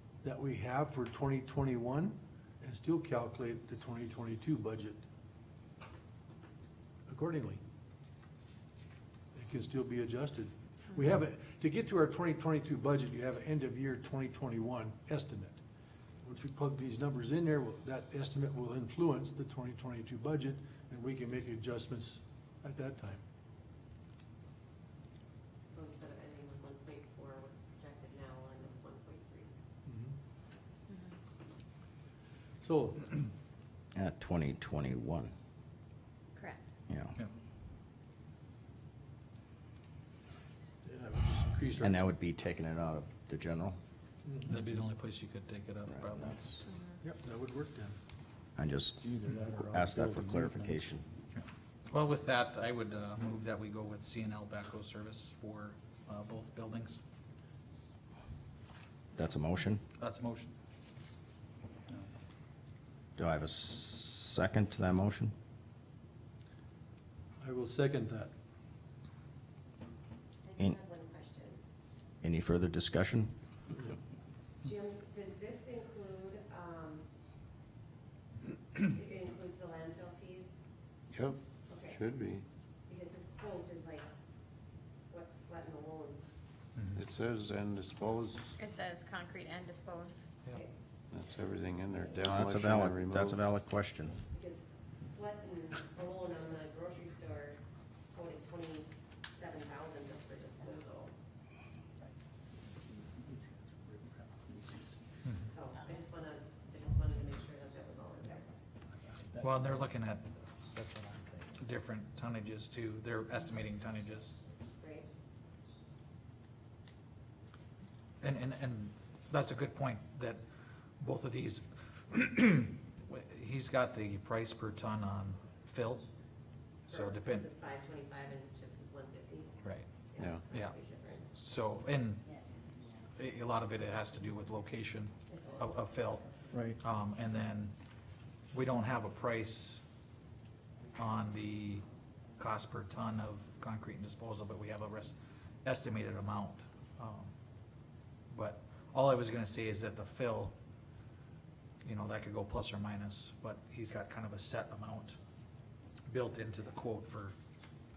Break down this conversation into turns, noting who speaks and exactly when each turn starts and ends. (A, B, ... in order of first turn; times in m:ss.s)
0:00.2-0:05.0 A
0:07.1-0:07.6 A
0:09.4-0:15.6 A
0:16.2-0:23.2 A
0:25.7-0:29.5 B
0:29.9-0:30.2 A
0:30.9-0:31.2 C
0:32.6-0:33.2 A
0:34.0-0:35.3 D
0:36.4-0:36.6 C
0:36.9-0:37.2 D
0:40.8-0:42.1 A
0:41.8-0:43.8 D
0:44.2-0:44.7 A
0:44.5-0:46.4 E
0:45.9-0:46.7 D
0:46.6-0:47.0 C
0:47.0-0:48.0 A
0:48.6-0:49.0 D
0:49.0-0:50.9 F
0:49.7-0:51.0 D
0:51.4-0:57.0 E
0:59.1-0:59.8 D
1:00.0-1:00.5 E
1:03.2-1:05.3 D
1:07.4-1:08.3 A
1:10.4-1:11.6 B
1:12.2-1:13.3 D
1:14.6-1:17.1 B
1:18.8-1:20.6 B
1:21.1-1:22.4 G
1:21.7-1:22.0 B
1:22.9-1:24.1 B
1:25.1-1:26.2 B
1:26.8-1:27.0 E
1:26.9-1:28.6 G
1:28.6-1:30.2 C
1:31.1-1:33.4 G
1:32.2-1:34.2 D
1:34.3-1:37.6 B
1:38.1-1:41.1 B
1:43.1-1:45.0 F
1:45.5-1:48.5 B
1:49.2-1:49.9 F
1:49.4-1:50.3 E
1:50.7-1:51.6 F
1:51.6-1:54.4 E
1:54.8-1:55.1 B
1:58.2-2:00.4 E
2:01.0-2:06.1 E
2:06.9-2:11.4 B
2:06.9-2:07.5 E
2:09.6-2:10.7 E
2:10.2-2:10.4 G
2:11.4-2:12.3 E
2:13.2-2:16.2 E
2:15.3-2:16.6 B
2:16.5-2:16.8 F
2:16.8-2:17.8 E
2:18.5-2:19.8 E
2:21.0-2:21.8 E
2:22.4-2:27.3 E
2:28.3-2:30.6 E
2:31.8-2:35.2 E
2:36.1-2:37.4 E